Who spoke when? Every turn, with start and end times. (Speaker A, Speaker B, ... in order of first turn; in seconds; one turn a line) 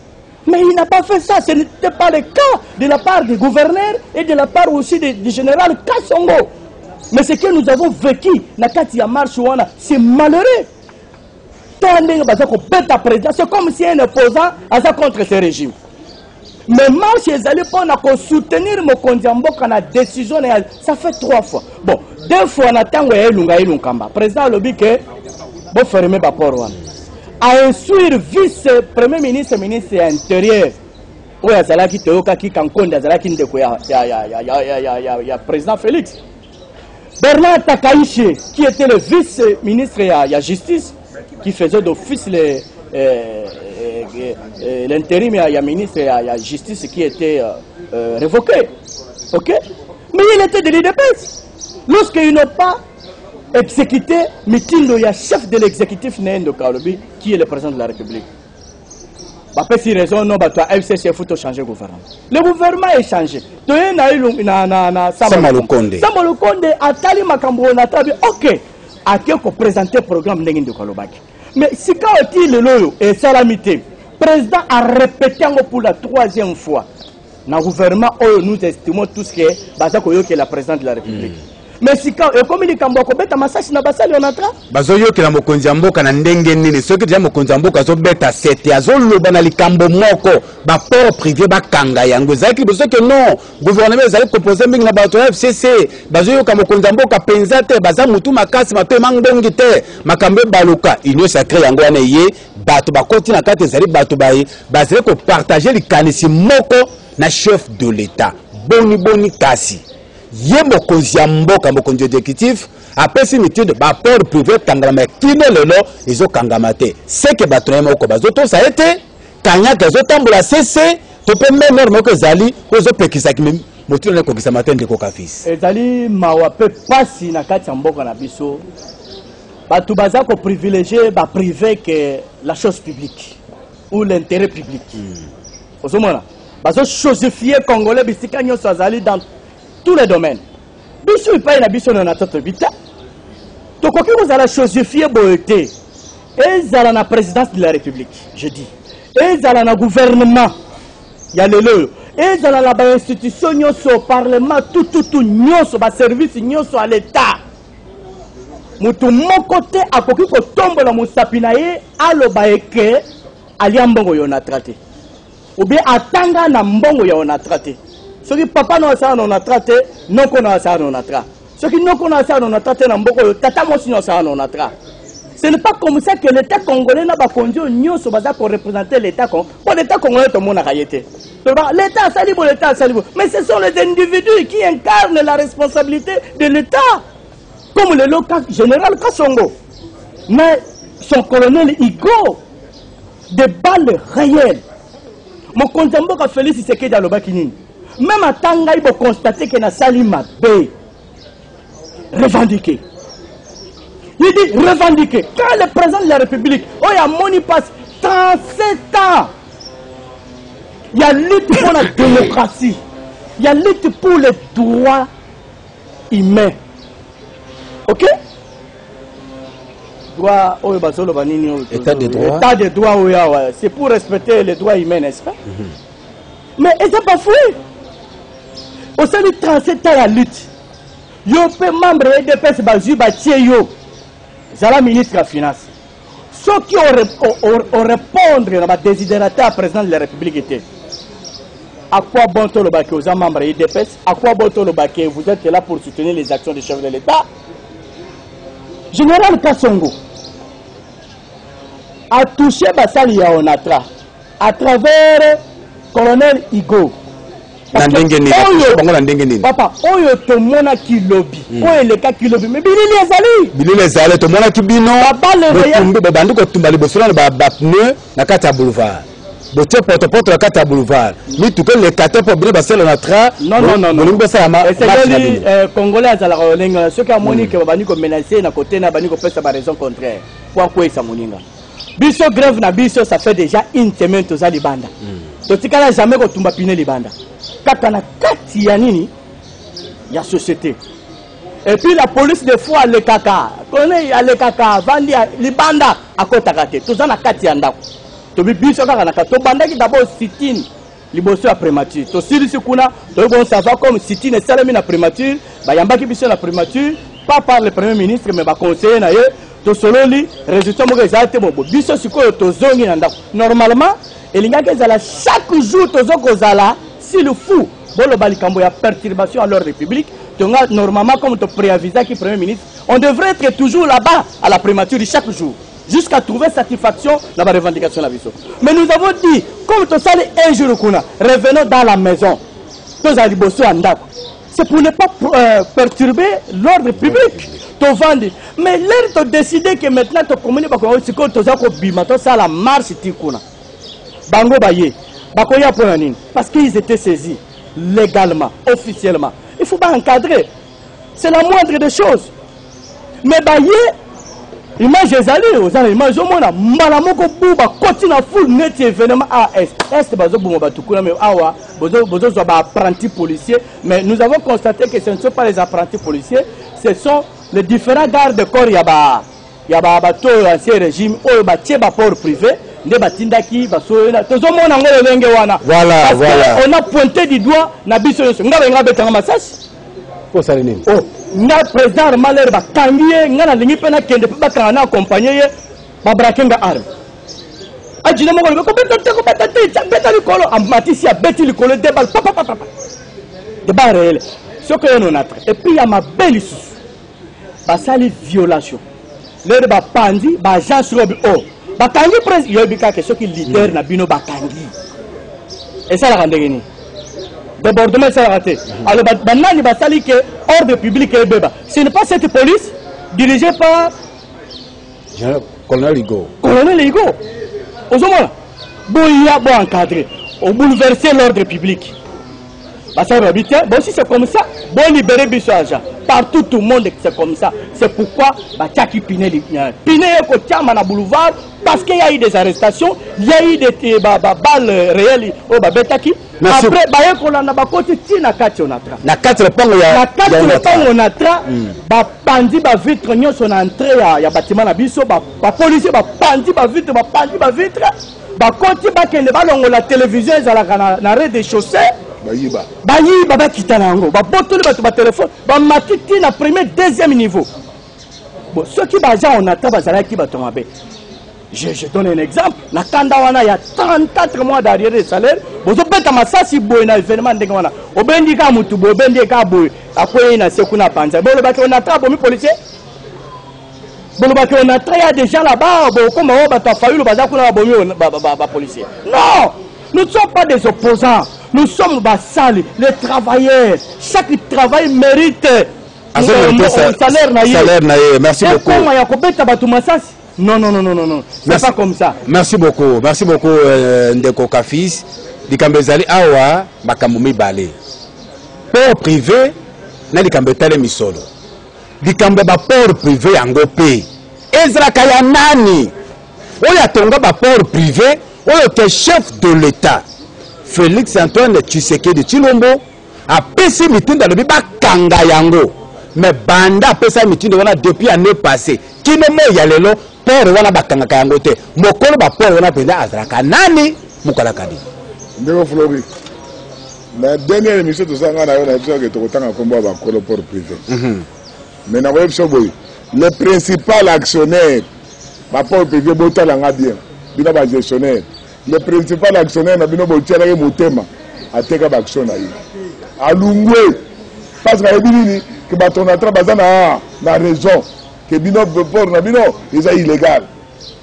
Speaker A: 0.5-6.5
Speaker A: 7.1-10.7
Speaker A: 11.8-15.8
Speaker A: 16.7-25.0
Speaker A: 25.7-26.8
Speaker A: 27.4-30.8
Speaker A: 31.4-36.2
Speaker A: 37.2-48.7
Speaker A: 49.3-49.6
Speaker A: 50.1-51.3
Speaker A: 51.9-52.8
Speaker A: 53.5-58.3
Speaker A: 59.5-76.9
Speaker B: 65.2-66.1
Speaker A: 77.5-84.5
Speaker B: 84.7-125.5
Speaker A: 125.5-128.6
Speaker A: 129.7-133.4
Speaker A: 133.9-135.0
Speaker A: 135.8-139.2
Speaker A: 139.8-140.4
Speaker A: 141.0-142.7
Speaker A: 143.8-145.7
Speaker A: 146.4-150.5
Speaker A: 151.3-157.4
Speaker A: 158.8-163.1
Speaker A: 163.6-164.8
Speaker A: 165.6-174.7
Speaker A: 175.4-187.0
Speaker A: 187.8-189.6
Speaker A: 190.3-192.4
Speaker A: 193.3-194.6
Speaker A: 195.5-200.7
Speaker A: 202.1-202.8
Speaker A: 204.2-209.3
Speaker A: 210.9-212.8
Speaker A: 213.4-215.1
Speaker A: 216.1-216.6
Speaker A: 217.9-218.1
Speaker A: 220.2-225.4
Speaker B: 221.7-222.5
Speaker A: 226.6-227.6
Speaker A: 229.0-230.5
Speaker A: 231.2-233.7
Speaker A: 234.5-235.7
Speaker A: 236.3-240.7
Speaker A: 241.9-247.3
Speaker A: 248.9-250.0
Speaker A: 252.1-253.9
Speaker A: 254.4-255.4
Speaker A: 255.9-256.9
Speaker A: 257.7-258.8
Speaker B: 257.7-259.5
Speaker A: 259.4-263.5
Speaker B: 261.5-261.8
Speaker B: 263.5-275.4
Speaker A: 265.0-265.9
Speaker A: 273.4-281.4
Speaker B: 277.2-277.5
Speaker A: 282.0-284.9
Speaker A: 285.5-287.1
Speaker A: 287.6-289.1
Speaker A: 290.1-290.8
Speaker A: 291.6-297.8
Speaker A: 298.4-332.4
Speaker A: 333.0-343.4
Speaker A: 344.3-350.5
Speaker A: 351.2-352.3
Speaker A: 353.2-353.9
Speaker A: 354.8-379.6
Speaker B: 375.6-376.6
Speaker B: 380.3-380.9
Speaker A: 380.9-385.5
Speaker A: 386.0-386.9
Speaker A: 388.0-392.7
Speaker A: 393.6-396.8
Speaker A: 397.7-398.8
Speaker A: 399.4-404.7
Speaker A: 405.9-406.7
Speaker A: 407.6-413.9
Speaker B: 415.1-416.3
Speaker A: 416.4-417.2
Speaker A: 417.9-418.3
Speaker A: 418.9-421.9
Speaker A: 422.9-439.0
Speaker B: 436.4-436.8
Speaker B: 439.0-440.9
Speaker A: 439.9-451.9
Speaker C: 452.2-452.7
Speaker A: 452.8-457.5
Speaker A: 458.5-460.7
Speaker A: 461.5-472.6
Speaker A: 474.2-487.7
Speaker B: 486.1-488.9
Speaker A: 488.4-492.2
Speaker B: 491.5-491.7
Speaker B: 492.2-497.8
Speaker B: 498.7-499.6
Speaker B: 500.1-501.2
Speaker B: 502.0-505.9
Speaker B: 506.6-510.0
Speaker B: 510.6-524.8
Speaker C: 525.4-526.1
Speaker C: 527.1-530.8
Speaker B: 530.9-531.2
Speaker C: 531.9-534.9
Speaker C: 535.5-542.6
Speaker C: 543.2-544.0
Speaker C: 544.6-550.5